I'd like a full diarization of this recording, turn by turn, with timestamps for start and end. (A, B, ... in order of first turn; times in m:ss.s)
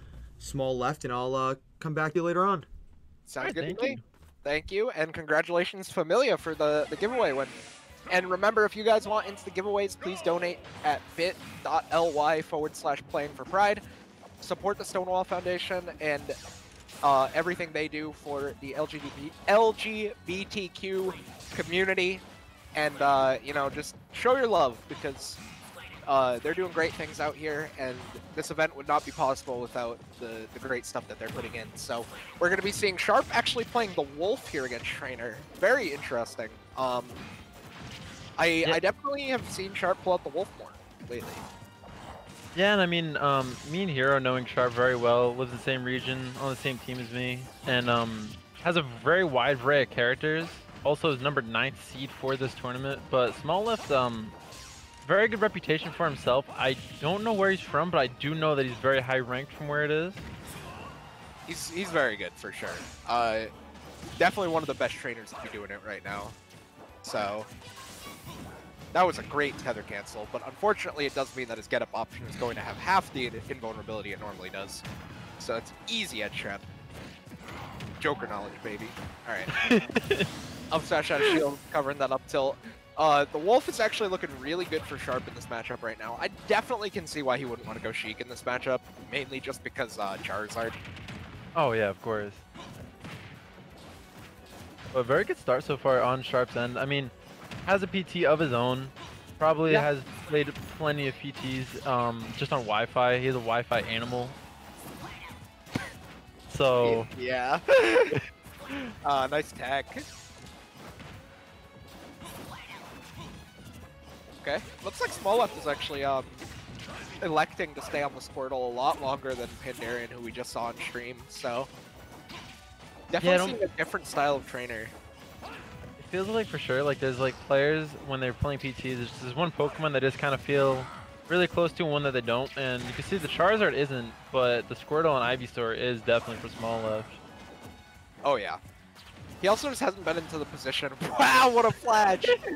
0:00.4-0:02.7 A
0:03.3-0:07.6 B
0:03.4-0:04.0 C
0:08.1-0:13.8 B
0:14.4-0:16.4 B
0:17.0-0:25.4 B
0:26.0-0:37.2 B
0:38.4-0:41.4 B
0:42.6-0:54.4 C
0:55.0-1:00.3 C
1:01.5-1:03.5 B
1:04.2-1:06.4 B
1:07.0-1:07.5 B
1:08.9-1:14.8 B
1:15.4-1:16.7 B
1:18.0-1:19.5 B
1:19.5-1:20.3 C
1:20.7-1:30.8 B
1:31.6-1:32.4 C
1:34.9-1:37.1 C
1:37.6-1:44.4 C
1:46.5-1:47.1 C
1:46.8-1:48.2 B
1:48.1-1:48.9 C
1:49.0-1:50.0 B
1:54.4-1:56.5 B
1:57.2-2:01.7 B
2:03.1-2:04.9 B
2:03.2-2:03.6 C
2:06.0-2:17.2 C
2:18.2-2:18.6 B
2:19.4-2:22.4 B